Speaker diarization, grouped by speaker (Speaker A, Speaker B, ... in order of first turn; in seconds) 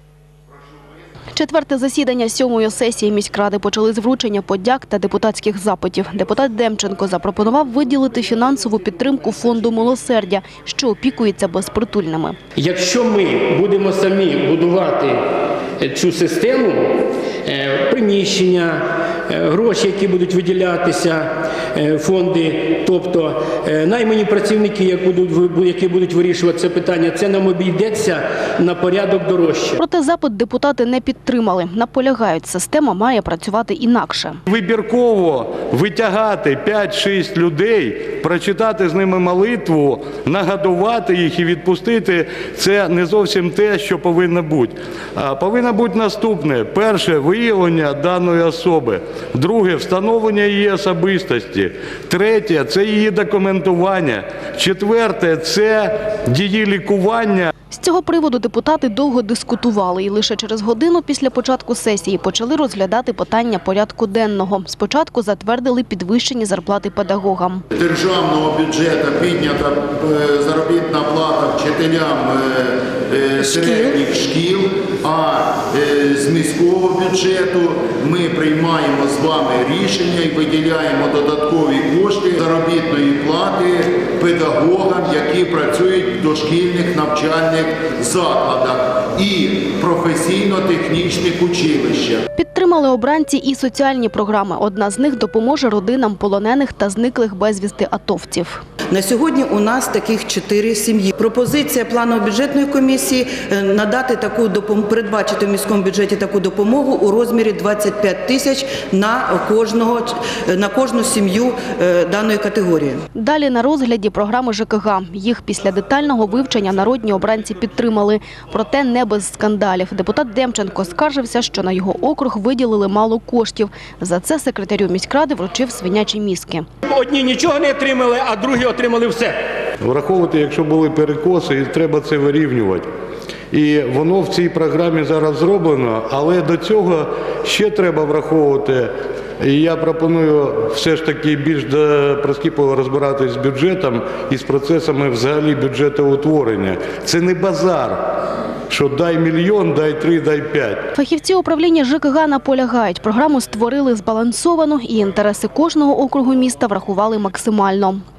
Speaker A: 1.4-12.4, 29.8-34.4, 57.7-67.6, 92.4-98.6, 113.2-126.7, 150.9-158.0
Speaker B: 12.6-15.2, 15.8-29.8, 126.9-129.4
Speaker C: 34.5-57.5, 129.8-132.9, 133.5-148.0, 148.7-150.9
Speaker D: 67.8-92.2
Speaker E: 98.9-113.0